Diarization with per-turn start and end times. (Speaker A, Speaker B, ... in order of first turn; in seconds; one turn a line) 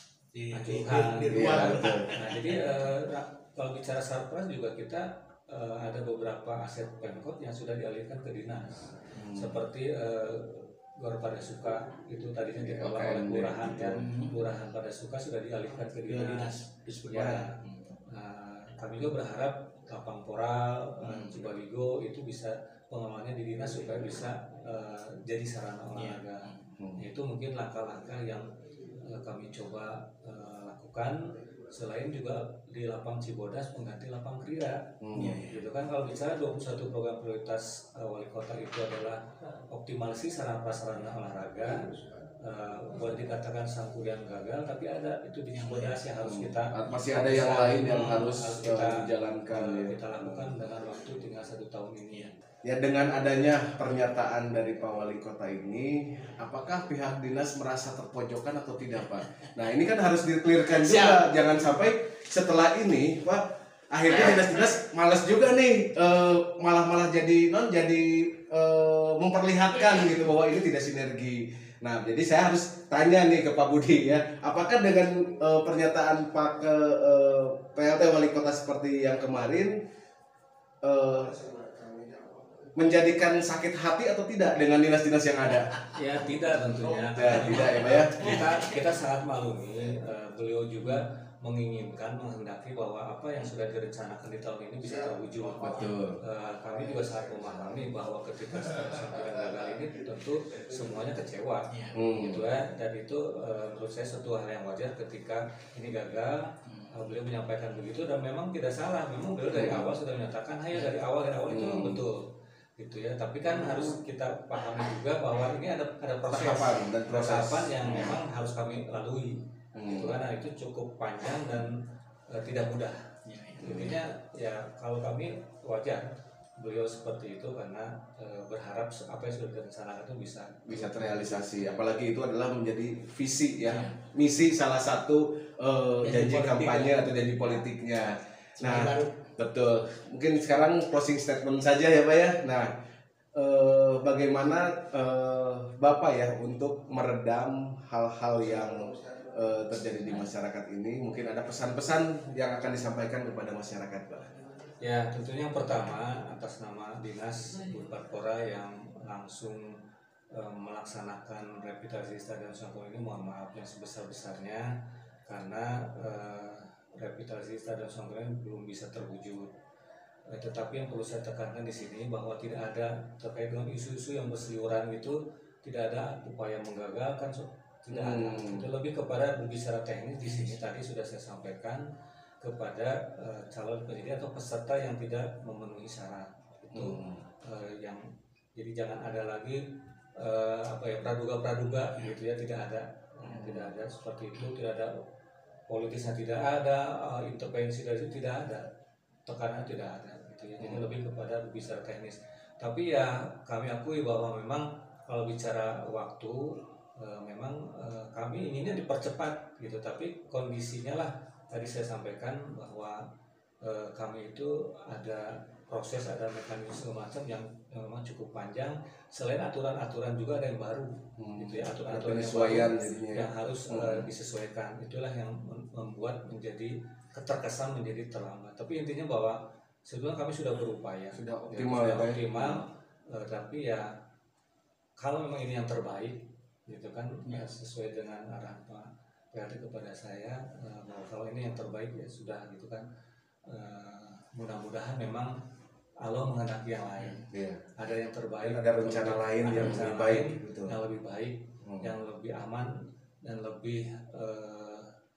Speaker A: 0.3-2.8
Speaker B: 0.5-16.5
Speaker C: 1.3-2.2
Speaker C: 9.2-9.6
Speaker C: 12.6-14.1
Speaker A: 13.9-14.3
Speaker A: 16.0-17.8
Speaker B: 17.1-52.4
Speaker A: 21.0-21.4
Speaker A: 26.0-26.6
Speaker C: 26.8-27.0
Speaker C: 35.0-35.5
Speaker A: 35.1-35.6
Speaker A: 45.5-46.0
Speaker C: 46.2-50.6
Speaker C: 52.6-79.8
Speaker A: 60.7-61.4
Speaker C: 80.8-81.6
Speaker C: 82.7-85.8
Speaker B: 85.9-123.0
Speaker C: 87.0-88.4
Speaker A: 87.5-88.6
Speaker C: 95.7-96.2
Speaker A: 101.7-102.0
Speaker C: 101.9-102.5
Speaker C: 109.5-109.9
Speaker C: 111.5-112.0
Speaker C: 116.3-118.2
Speaker C: 119.7-120.2
Speaker A: 123.2-123.8
Speaker B: 123.6-131.4
Speaker C: 123.7-124.0
Speaker C: 130.7-142.7
Speaker A: 133.7-134.0
Speaker A: 136.0-137.1
Speaker A: 138.6-139.3
Speaker C: 143.3-154.4
Speaker B: 154.8-169.5
Speaker B: 170.3-181.9
Speaker C: 177.9-178.7
Speaker A: 180.2-180.6
Speaker B: 182.4-195.0
Speaker C: 186.7-187.2
Speaker C: 193.2-193.7
Speaker B: 195.7-198.7
Speaker B: 199.3-213.1
Speaker C: 200.6-200.9
Speaker B: 213.6-233.9
Speaker C: 221.2-224.1
Speaker C: 231.2-232.6
Speaker B: 235.0-242.9
Speaker B: 243.5-245.4
Speaker B: 246.0-254.9
Speaker C: 247.3-247.6
Speaker C: 248.4-250.8
Speaker C: 251.6-251.9